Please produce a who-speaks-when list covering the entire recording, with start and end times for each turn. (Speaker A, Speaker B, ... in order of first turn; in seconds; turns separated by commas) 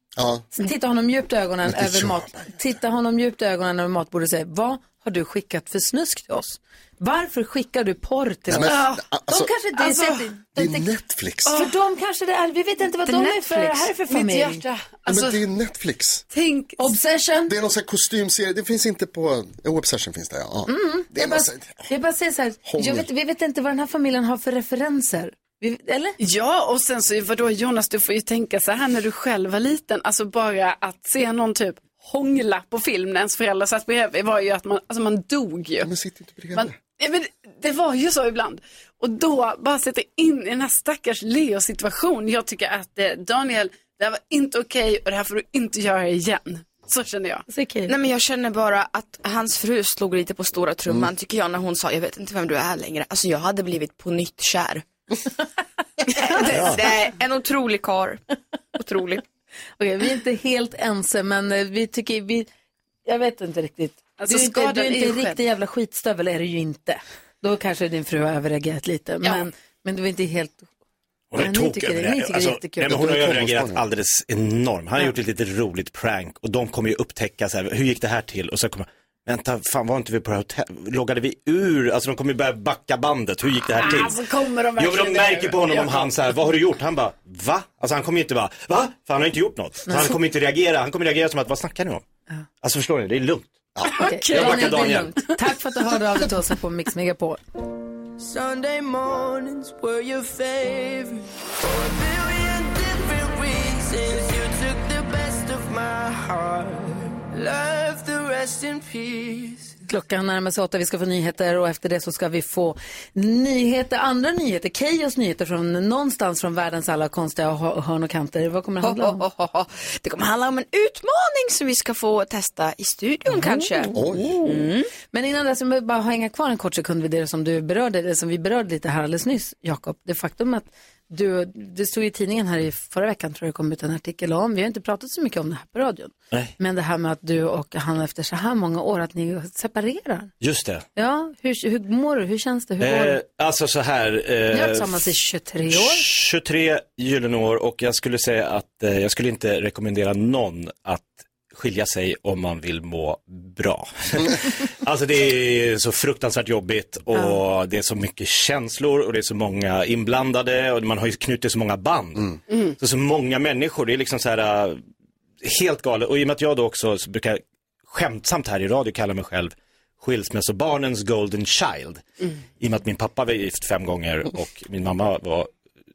Speaker A: 0.2-0.5, Speaker B: 0.6-10.9, Speaker A: 1.7-2.5, Speaker A: 8.5-9.5, Speaker C: 9.8-10.3, Speaker A: 10.6-11.6, Speaker C: 11.5-11.7, Speaker B: 11.5-14.6, Speaker D: 13.1-13.9, Speaker C: 14.1-15.4, Speaker A: 15.1-16.2, Speaker C: 16.3-16.8, Speaker B: 16.8-17.5, Speaker A: 17.5-21.9, Speaker B: 20.7-26.2, Speaker A: 22.7-23.1, Speaker C: 26.2-35.9, Speaker A: 35.8-36.7, Speaker C: 36.5-47.5, Speaker B: 47.5-47.9, Speaker D: 47.9-54.9, Speaker D: 56.0-58.2, Speaker E: 56.5-56.8, Speaker D: 58.8-59.2, Speaker B: 59.8-62.5, Speaker B: 63.1-70.7, Speaker C: 64.2-65.4, Speaker E: 71.3-84.2, Speaker B: 71.3-73.2, Speaker A: 72.9-73.8, Speaker C: 83.8-86.1, Speaker E: 84.8-92.0, Speaker E: 92.6-93.5, Speaker C: 94.0-94.8, Speaker B: 94.0-97.4, Speaker E: 94.3-95.2, Speaker F: 98.2-109.8, Speaker B: 109.9-119.2, Speaker D: 118.8-123.9, Speaker B: 123.4-124.6, Speaker A: 123.9-124.4, Speaker D: 124.4-124.9, Speaker B: 125.1-140.3, Speaker E: 140.4-140.8, Speaker B: 141.0-143.2, Speaker E: 142.8-145.2, Speaker B: 144.5-146.1, Speaker E: 145.7-164.8, Speaker C: 162.5-162.8, Speaker E: 165.4-172.0, Speaker E: 172.6-175.5